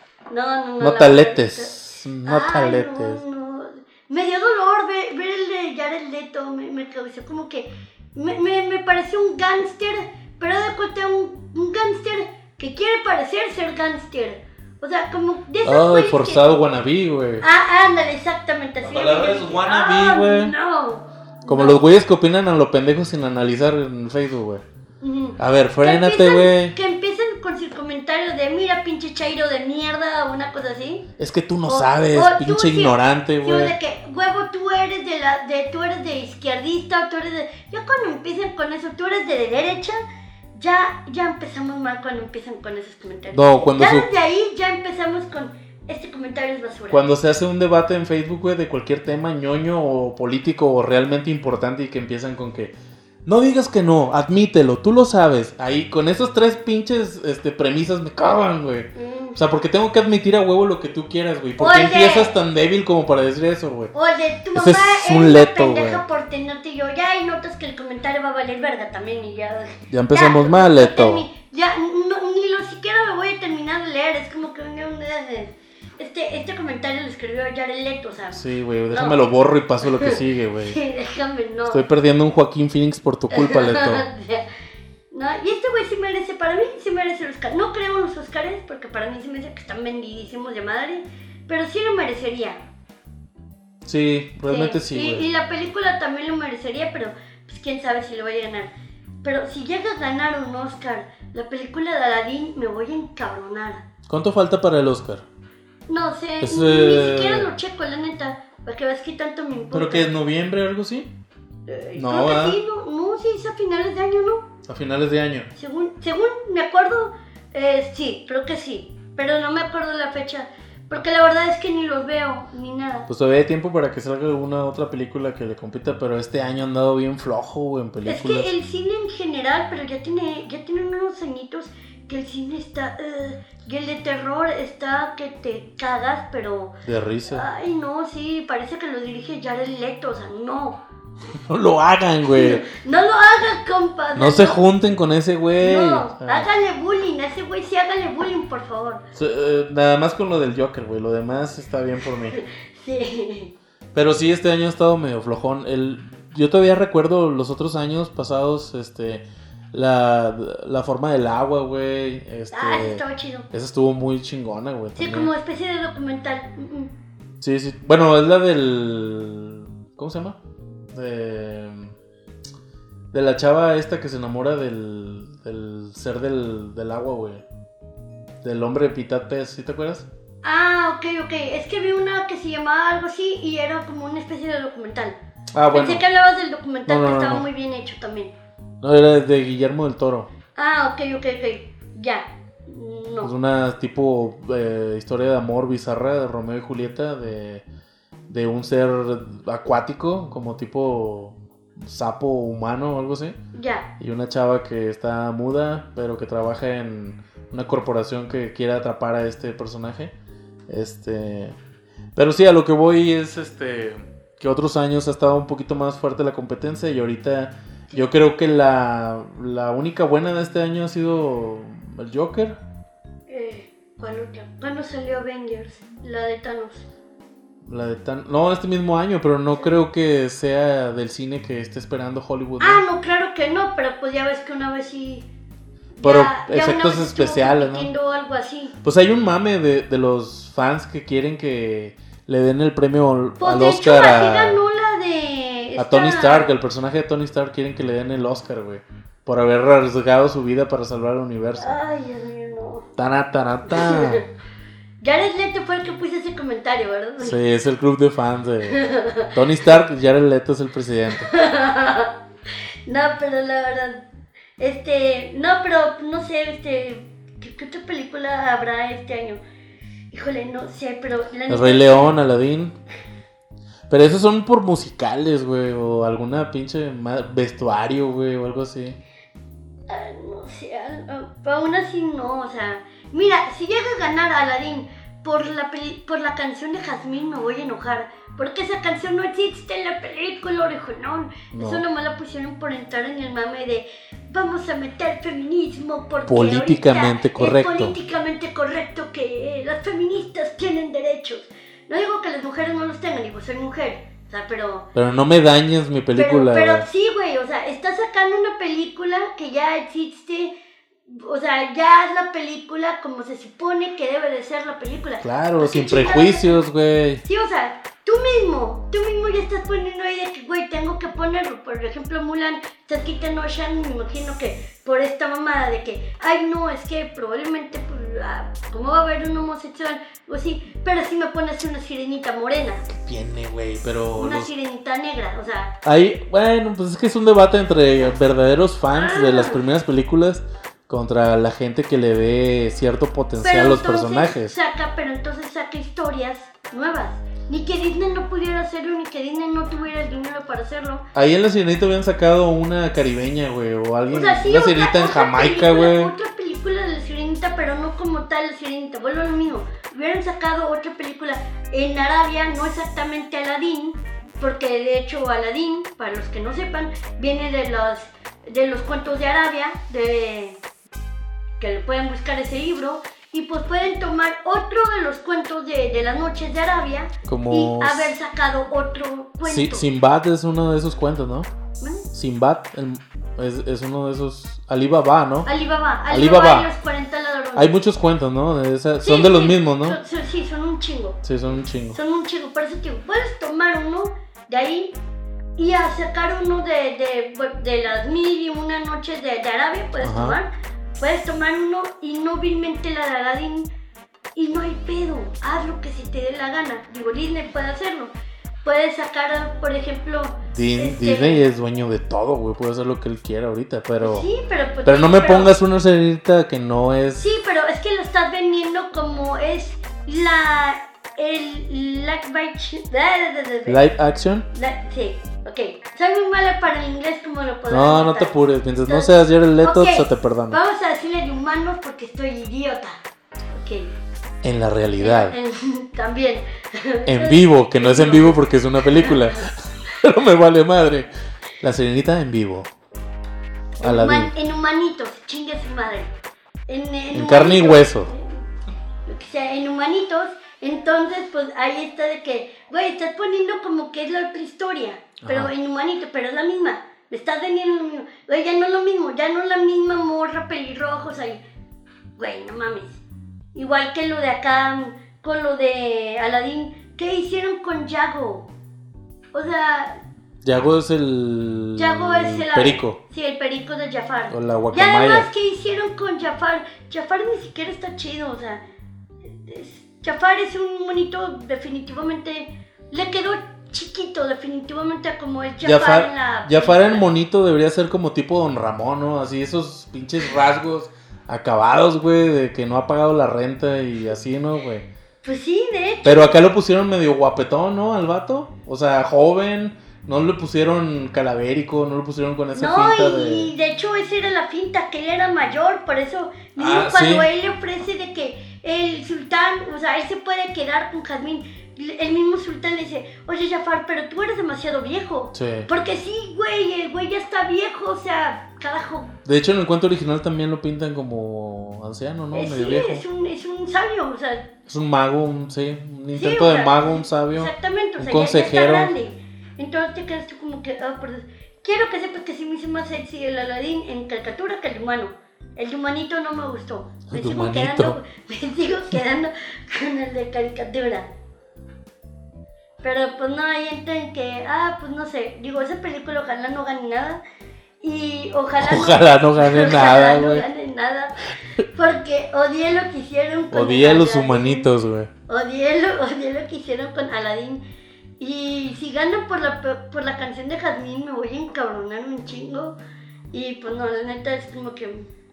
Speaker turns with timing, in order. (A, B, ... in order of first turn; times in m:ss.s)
0:00.3-0:16.6 A
0:00.8-0:03.2 B
0:15.6-0:17.4 B
0:17.4-0:21.8 A
0:18.8-0:20.5 B
0:21.4-0:24.6 B
0:25.0-0:31.0 A
0:25.4-0:26.7 B
0:31.2-0:33.7 B
0:31.7-0:40.0 A
0:40.6-0:47.0 A
0:43.3-0:44.1 B
0:46.9-0:52.7 B
0:53.2-1:03.9 B
0:58.9-0:59.4 A
1:01.6-1:02.3 A
1:03.9-1:19.2 A
1:04.5-1:06.0 B
1:09.9-1:11.2 B
1:18.3-1:20.8 B
1:19.8-1:21.8 A
1:21.7-1:24.0 B
1:23.3-1:24.4 A
1:25.1-1:32.6 A
1:33.8-1:35.2 B
1:34.5-1:38.7 A
1:39.2-1:43.8 A
1:44.1-1:45.2 B
1:45.9-1:50.1 A
1:46.4-1:47.5 B
1:49.7-1:51.1 B
1:51.7-1:54.5 A
1:51.9-1:52.6 B
1:54.6-1:55.5 B
1:55.5-2:03.1 A
2:03.1-2:08.5 B
2:08.0-2:16.8 A
2:16.8-2:17.5 B
2:17.3-2:20.8 A
2:21.3-2:22.6 B
2:22.3-2:24.6 A
2:24.2-2:26.5 B
2:25.6-2:29.0 A
2:29.1-2:32.4 B
2:32.3-2:33.5 A
2:33.9-2:45.3 B
2:42.5-2:43.5 A
2:45.0-2:46.9 A
2:47.4-2:50.4 B
2:50.9-2:51.9 B
2:53.1-2:57.4 B
2:58.4-3:00.1 B
3:00.4-3:05.2 A
3:05.5-3:06.0 B
3:05.7-3:08.3 A
3:06.9-3:07.4 B
3:08.8-3:10.3 B
3:10.6-3:13.3 A
3:13.2-3:17.6 B
3:18.3-3:23.4 B
3:23.5-3:23.9 A
3:24.0-3:30.1 B
3:30.7-3:31.5 B
3:32.1-3:42.6 B
3:43.3-3:46.8 A
3:47.6-3:52.8 B
3:52.6-3:55.2 A
3:56.0-3:58.7 A
3:56.0-3:57.9 B
3:58.8-4:04.6 B
4:03.4-4:06.5 A
4:05.8-4:11.7 B
4:11.6-4:12.9 A
4:13.0-4:14.2 B
4:13.7-4:14.2 A
4:15.0-4:17.4 A
4:17.2-4:21.3 B
4:18.7-4:19.3 A
4:21.1-4:22.1 A
4:22.9-4:24.0 A
4:24.6-4:29.4 A
4:30.1-4:32.2 A
4:31.5-4:32.7 B
4:33.9-4:39.0 B
4:39.9-5:04.9 A
4:51.5-4:51.8 B
4:56.2-4:57.9 B
5:04.9-5:06.8 B
5:06.1-5:10.5 A
5:11.1-5:16.5 A
5:15.2-5:17.2 B
5:17.2-5:32.8 A
5:32.9-5:34.5 B
5:34.2-5:35.7 A
5:35.8-5:44.6 B
5:38.9-5:39.6 A
5:43.4-5:51.0 A
5:51.1-5:56.1 B
5:54.1-6:10.6 A
6:11.6-6:19.8 A
6:17.2-6:18.1 B
6:19.4-6:21.5 B
6:21.8-6:22.1 A
6:22.1-6:25.5 B
6:25.4-6:27.7 A
6:26.1-6:26.7 B
6:27.5-6:30.0 B
6:29.0-6:31.2 A
6:31.2-6:32.0 B
6:31.9-6:34.9 A
6:35.6-6:43.7 A
6:40.0-6:40.4 B
6:44.4-6:48.1 A
6:48.6-6:51.4 A
6:50.5-6:54.3 B
6:54.0-6:55.5 A
6:54.8-6:57.2 B
6:57.2-7:03.8 A
7:03.7-7:04.5 B
7:04.5-7:08.3 A
7:07.7-7:10.6 B
7:08.8-7:13.0 A
7:13.5-7:13.9 A
7:14.4-7:15.4 B
7:15.0-7:18.4 A
7:17.0-7:21.1 B
7:18.9-7:19.4 A
7:21.6-7:22.7 B
7:23.8-7:26.1 A
7:23.8-7:24.3 B
7:26.7-7:28.4 A
7:27.1-7:28.1 B
7:29.1-7:41.4 A
7:35.2-7:35.5 B
7:42.2-7:43.0 A
7:43.5-7:48.5 A
7:49.3-7:50.0 A
7:50.4-7:53.0 B
7:51.8-7:58.6 A
7:54.3-7:55.3 B
7:59.2-8:07.1 A
8:05.6-8:14.9 B
8:15.2-8:16.4 A
8:16.0-8:23.5 B
8:22.5-8:39.2 A
8:26.6-8:27.3 B
8:35.3-8:35.7 B
8:39.2-8:43.0 B
8:42.3-8:44.5 A
8:44.7-8:48.9 B
8:46.1-9:01.1 A
8:57.1-8:58.0 B
9:02.8-9:07.2 A
9:07.8-9:14.7 A
9:08.6-9:10.5 B
9:13.5-9:15.1 B
9:15.3-9:17.6 A
9:18.2-9:22.8 A
9:23.3-9:25.1 A